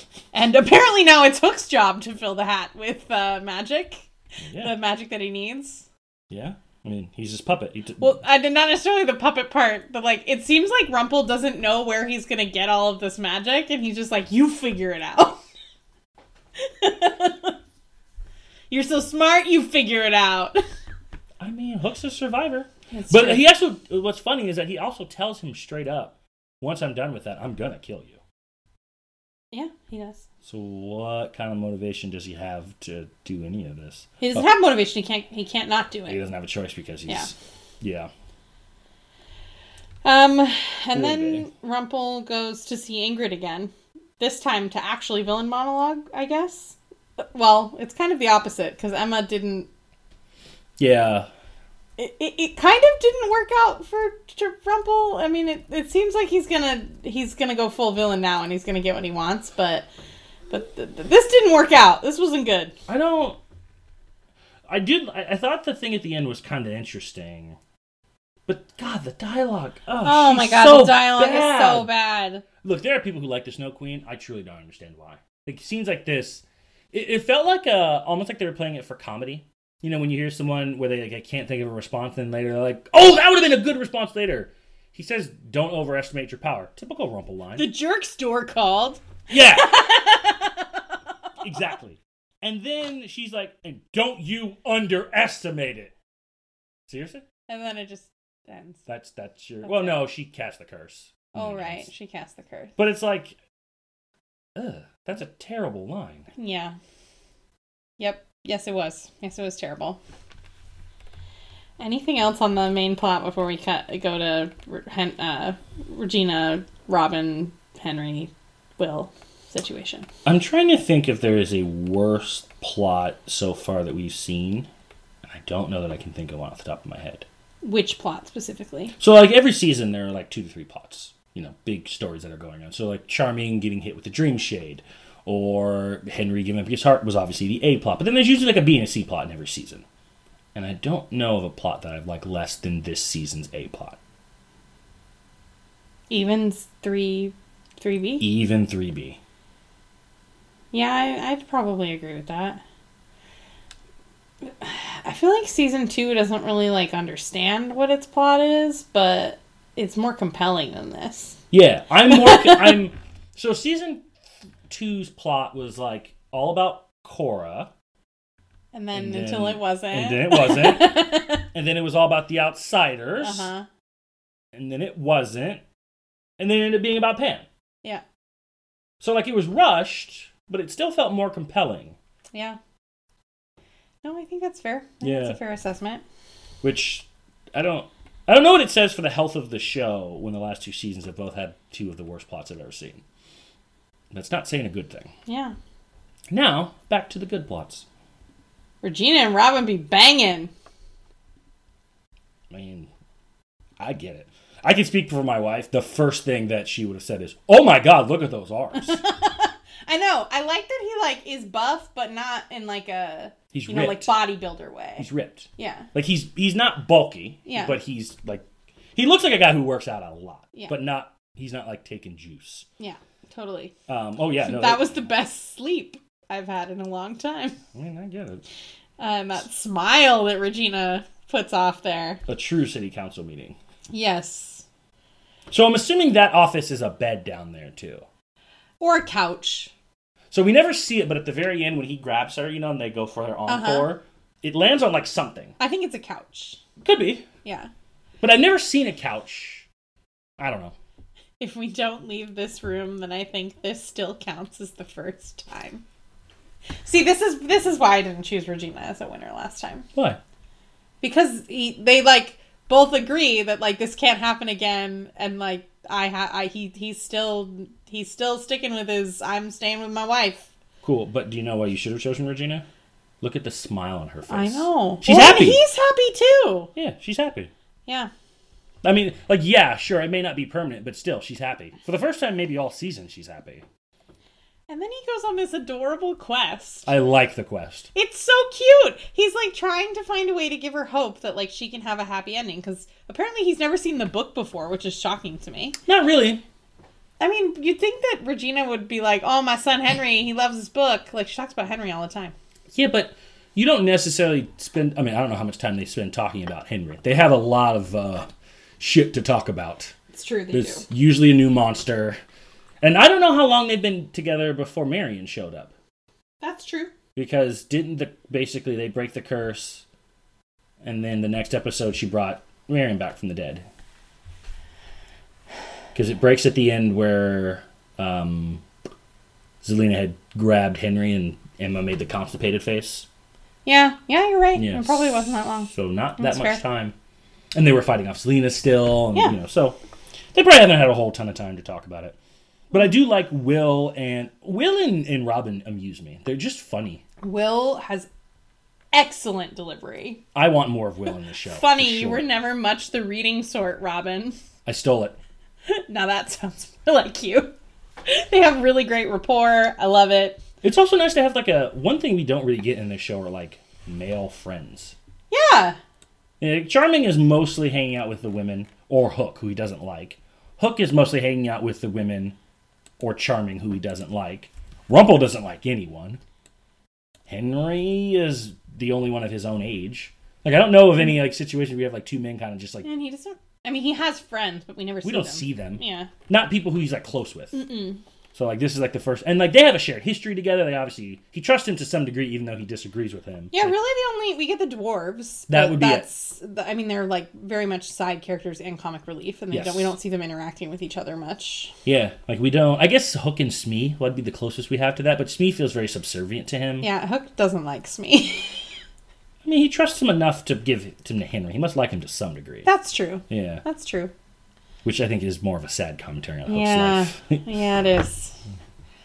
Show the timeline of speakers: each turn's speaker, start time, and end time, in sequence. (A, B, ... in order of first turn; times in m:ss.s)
0:00.3-0:05.9 A
0:04.4-0:04.8 B
0:06.3-0:08.2 B
0:08.0-0:15.4 A
0:16.6-0:17.5 A
0:18.7-0:20.6 A
0:21.4-0:28.2 B
0:22.9-0:23.4 A
0:29.5-0:30.3 A
0:30.4-0:34.4 B
0:34.2-0:36.2 A
0:36.1-0:38.1 B
0:40.0-0:49.7 A
0:40.9-0:41.5 B
0:50.8-0:51.3 B
0:52.0-0:59.9 A
1:00.5-1:02.7 A
1:02.9-1:03.4 B
1:04.7-1:07.6 B
1:08.5-1:11.9 B
1:10.0-1:12.4 A
1:12.6-1:27.7 B
1:27.6-1:30.9 A
1:29.3-1:29.8 B
1:31.4-1:35.9 B
1:36.9-1:37.2 B
1:37.5-1:38.8 A
1:38.9-1:41.9 B
1:39.6-1:40.0 A
1:41.3-1:42.8 A
1:42.8-1:43.4 B
1:44.6-1:46.3 B
1:46.4-1:46.8 A
1:48.0-1:50.0 A
1:51.8-2:00.1 A
2:00.3-2:04.7 B
2:05.2-2:07.3 B
2:07.6-2:08.9 A
2:09.0-2:19.8 B
2:20.6-2:24.0 B
2:26.1-2:28.3 A
2:28.2-2:29.2 B
2:30.7-2:32.6 A
2:34.4-2:41.4 A
2:41.5-2:44.0 B
2:42.1-2:42.8 A
2:44.7-2:47.7 B
2:48.7-2:51.4 A
2:48.9-2:53.5 B
2:53.2-2:53.7 A
2:54.5-2:55.6 B
2:56.4-2:57.4 B
2:59.0-3:02.0 B
3:02.3-3:02.6 A
3:04.0-3:06.0 A
3:05.0-3:05.4 B
3:06.6-3:13.0 B
3:14.1-3:15.1 B
3:15.3-3:15.6 A
3:16.3-3:17.8 B
3:18.8-3:20.5 A
3:22.5-3:22.9 B
3:23.8-3:29.0 B
3:28.8-3:35.9 A
3:33.5-3:34.2 B
3:35.0-3:42.7 B
3:37.4-3:37.7 A
3:42.8-3:43.7 A
3:43.9-3:45.1 B
3:44.4-3:47.6 A
3:47.7-3:48.4 B
3:49.0-3:52.2 A
3:52.3-3:53.6 B
3:53.9-3:54.6 A
3:55.5-3:58.0 B
3:58.8-3:59.7 A
4:00.3-4:05.6 B
4:03.5-4:03.9 A
4:05.6-4:06.6 A
4:06.8-4:07.3 B
4:07.4-4:07.7 A
4:08.2-4:09.7 B
4:10.4-4:10.7 B
4:11.4-4:15.8 A
4:16.8-4:19.9 A
4:20.0-4:20.2 B
4:21.0-4:30.5 A
4:30.8-4:32.7 B
4:33.2-4:35.6 B
4:34.3-4:36.7 A
4:36.7-4:37.5 B
4:38.8-4:43.6 B
4:44.7-4:46.9 A
4:46.9-4:47.9 B
4:48.0-4:55.8 A
4:55.9-4:56.4 B
4:57.2-5:02.3 A
5:02.7-5:10.0 B
5:10.1-5:10.8 A
5:10.5-5:12.2 B
5:12.8-5:15.7 B
5:16.4-5:16.9 A
5:17.1-5:19.8 B
5:20.8-5:23.7 B
5:26.0-5:28.6 B
5:29.6-5:33.1 B
5:33.6-5:36.6 A
5:34.6-5:36.9 B
5:37.5-5:39.8 B
5:40.3-5:42.2 B
5:42.7-5:47.0 B
5:47.2-5:48.1 A
5:48.9-5:50.2 A
5:50.4-5:52.3 B
5:51.5-5:54.4 A
5:54.7-5:55.2 B
5:55.7-5:57.5 A
5:58.0-6:00.4 A
6:00.6-6:05.0 B
6:05.3-6:05.8 A
6:06.4-6:12.4 B
6:13.0-6:16.2 B
6:17.3-6:22.9 B
6:22.8-6:26.1 A
6:25.0-6:27.6 B
6:27.5-6:28.0 A
6:28.4-6:33.7 B
6:33.5-6:41.7 A
6:35.5-6:36.0 B
6:39.5-6:39.9 B
6:41.8-6:46.9 B
6:46.8-6:48.7 A
6:49.4-6:52.7 B
6:52.7-6:54.1 A
6:53.3-6:53.6 B
6:54.8-6:57.4 B
6:56.5-6:58.4 A